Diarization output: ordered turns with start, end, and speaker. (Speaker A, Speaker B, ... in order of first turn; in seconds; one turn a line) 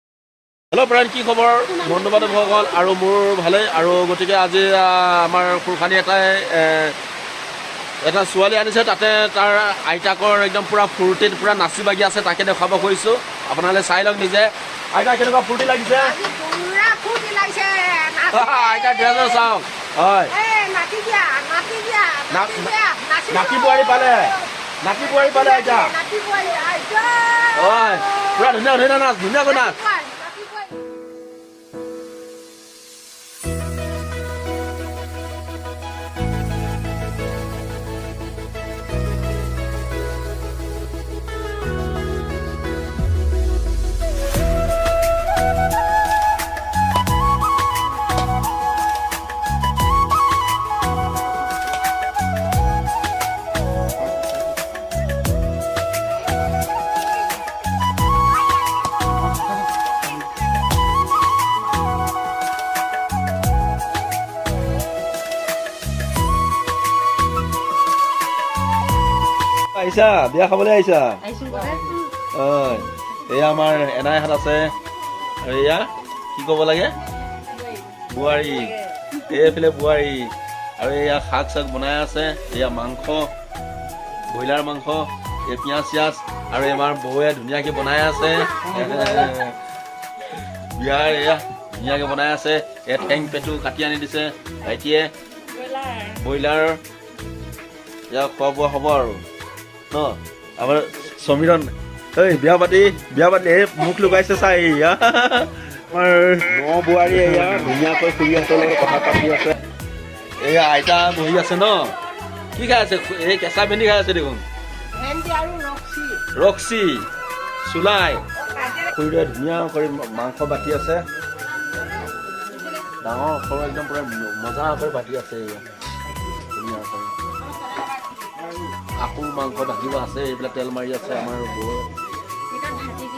Speaker A: 0.7-7.0
Speaker A: 8.0-16.1
Speaker B: 15.9-19.5
Speaker A: 18.3-20.3
Speaker B: 20.3-28.6
Speaker A: 22.3-22.7
Speaker A: 23.3-25.9
Speaker A: 27.6-29.8
Speaker B: 29.4-30.8
Speaker A: 69.7-71.2
Speaker B: 71.5-71.7
Speaker A: 72.3-74.7
Speaker A: 75.4-77.0
Speaker A: 78.1-78.7
Speaker A: 79.3-83.3
Speaker A: 84.3-89.6
Speaker A: 90.8-95.1
Speaker A: 96.0-96.8
Speaker A: 98.1-99.2
Speaker A: 99.9-109.6
Speaker A: 110.4-112.0
Speaker A: 112.5-114.4
Speaker B: 114.9-116.2
Speaker A: 116.3-117.1
Speaker A: 117.6-118.2
Speaker A: 118.9-121.1
Speaker A: 123.0-125.6
Speaker A: 126.5-127.1
Speaker A: 129.0-131.9